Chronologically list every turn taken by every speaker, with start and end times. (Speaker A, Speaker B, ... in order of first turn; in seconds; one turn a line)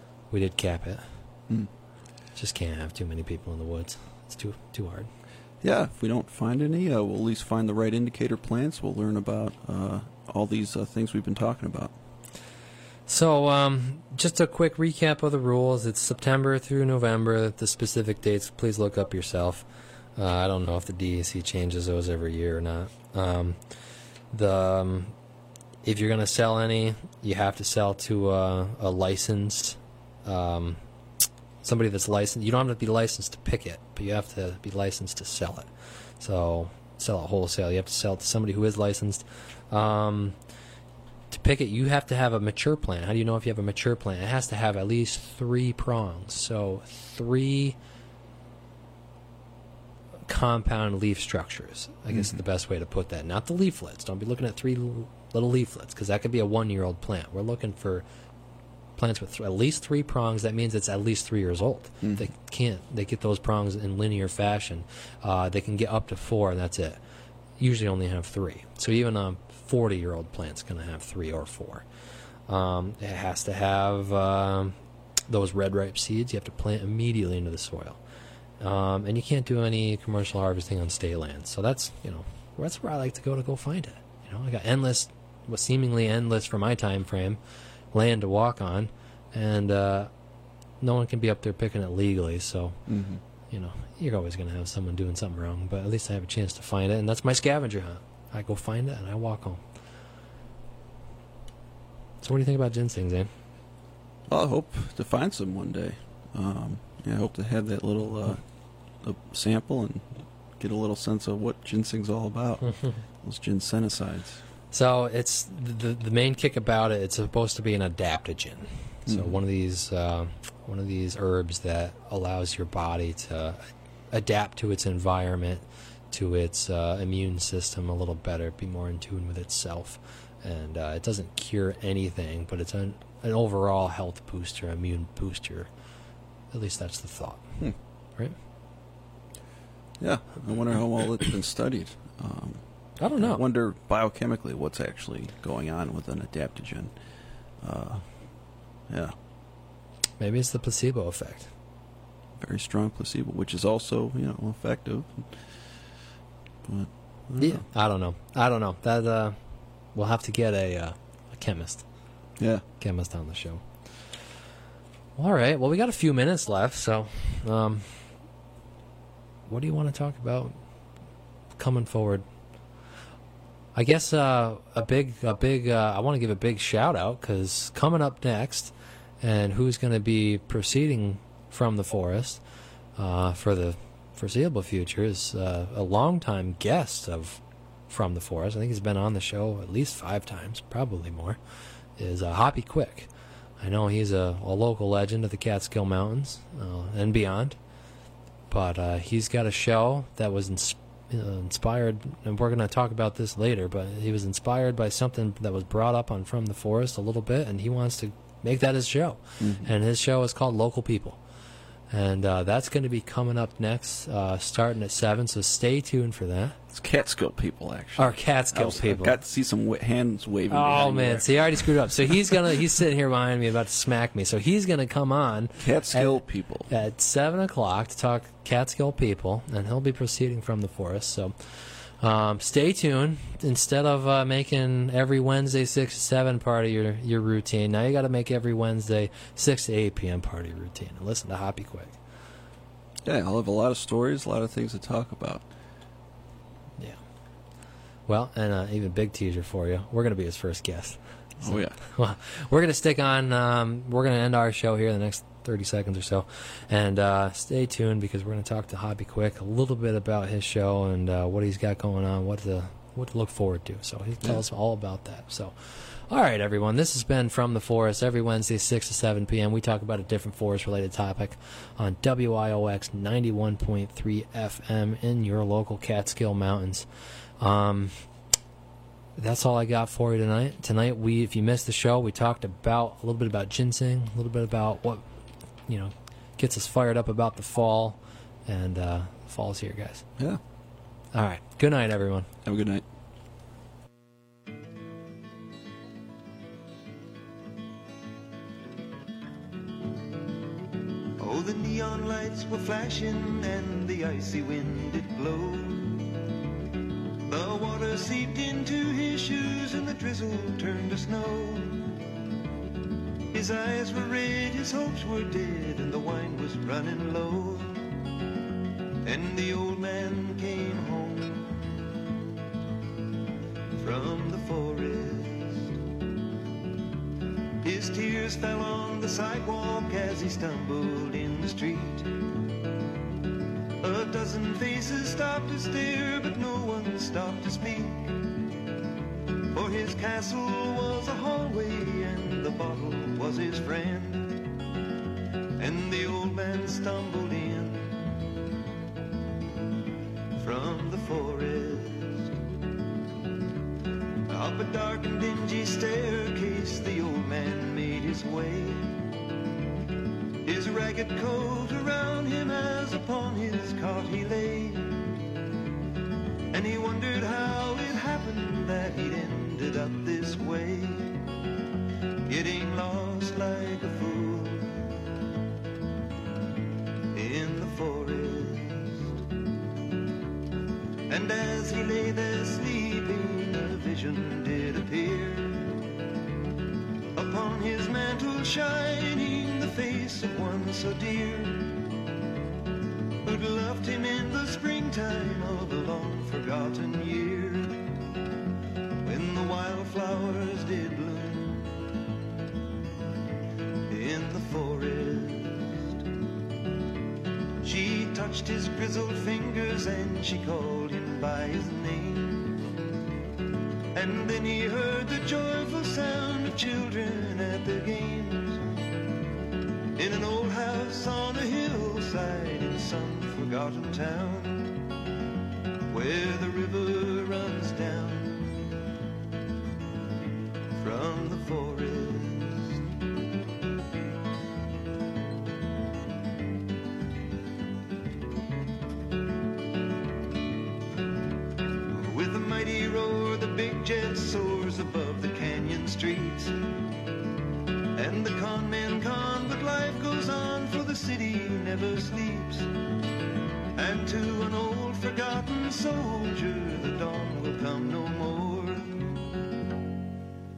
Speaker A: 0.3-1.1
Speaker A: 2.4-5.1
Speaker B: 5.6-11.9
Speaker A: 13.1-19.6
Speaker A: 20.1-23.6
Speaker A: 24.3-25.1
Speaker A: 25.8-30.8
Speaker A: 31.6-35.7
Speaker A: 36.2-40.4
Speaker A: 41.3-47.8
Speaker A: 50.3-58.0
Speaker B: 52.1-52.4
Speaker A: 59.0-67.0
Speaker B: 62.0-62.3
Speaker A: 67.6-71.8
Speaker A: 72.5-74.7
Speaker A: 75.3-78.0
Speaker A: 78.6-87.4
Speaker A: 87.9-90.1
Speaker A: 90.8-92.8
Speaker B: 92.9-93.2
Speaker A: 93.5-99.6
Speaker A: 102.2-103.3
Speaker B: 104.3-108.4
Speaker B: 109.0-114.4
Speaker A: 114.7-135.7
Speaker B: 119.1-119.4
Speaker A: 136.5-137.6
Speaker B: 140.0-142.6
Speaker A: 143.0-143.4
Speaker B: 143.2-146.9
Speaker B: 147.6-148.0
Speaker B: 148.9-149.1
Speaker A: 150.2-151.5
Speaker B: 152.4-155.6
Speaker B: 156.6-157.6
Speaker A: 157.4-159.4
Speaker A: 159.9-161.8
Speaker B: 162.4-162.6
Speaker A: 162.8-163.6
Speaker A: 165.2-168.1
Speaker A: 169.5-170.6
Speaker A: 171.6-172.2
Speaker A: 173.7-182.4
Speaker A: 183.0-191.4
Speaker A: 192.0-197.6
Speaker A: 198.5-211.2
Speaker B: 209.4-209.7
Speaker A: 211.9-216.6
Speaker B: 216.7-222.1
Speaker A: 218.0-219.2
Speaker A: 220.5-242.0
Speaker B: 225.6-226.7
Speaker B: 243.0-245.4
Speaker A: 248.1-276.9
Speaker B: 251.4-251.8
Speaker A: 277.4-277.9
Speaker A: 279.1-285.0
Speaker A: 285.7-290.1
Speaker A: 291.1-292.3
Speaker B: 292.4-292.8
Speaker C: 301.2-306.1
Speaker C: 307.3-311.9
Speaker C: 313.3-317.8
Speaker C: 319.0-321.6
Speaker C: 323.8-325.7
Speaker C: 327.6-332.1
Speaker C: 333.8-338.2
Speaker C: 339.5-344.4
Speaker C: 345.6-348.0
Speaker C: 350.4-352.3
Speaker C: 354.3-358.9
Speaker C: 360.4-365.0
Speaker C: 366.5-371.3
Speaker C: 372.3-375.0
Speaker C: 377.1-379.2
Speaker C: 381.1-385.8
Speaker C: 387.1-391.8
Speaker C: 393.2-397.9
Speaker C: 399.0-401.7
Speaker C: 403.9-406.0
Speaker C: 407.6-412.6
Speaker C: 413.9-418.6
Speaker C: 420.0-424.8
Speaker C: 425.9-428.6
Speaker C: 430.7-432.8
Speaker C: 441.9-446.6
Speaker C: 447.9-452.7
Speaker C: 453.8-459.2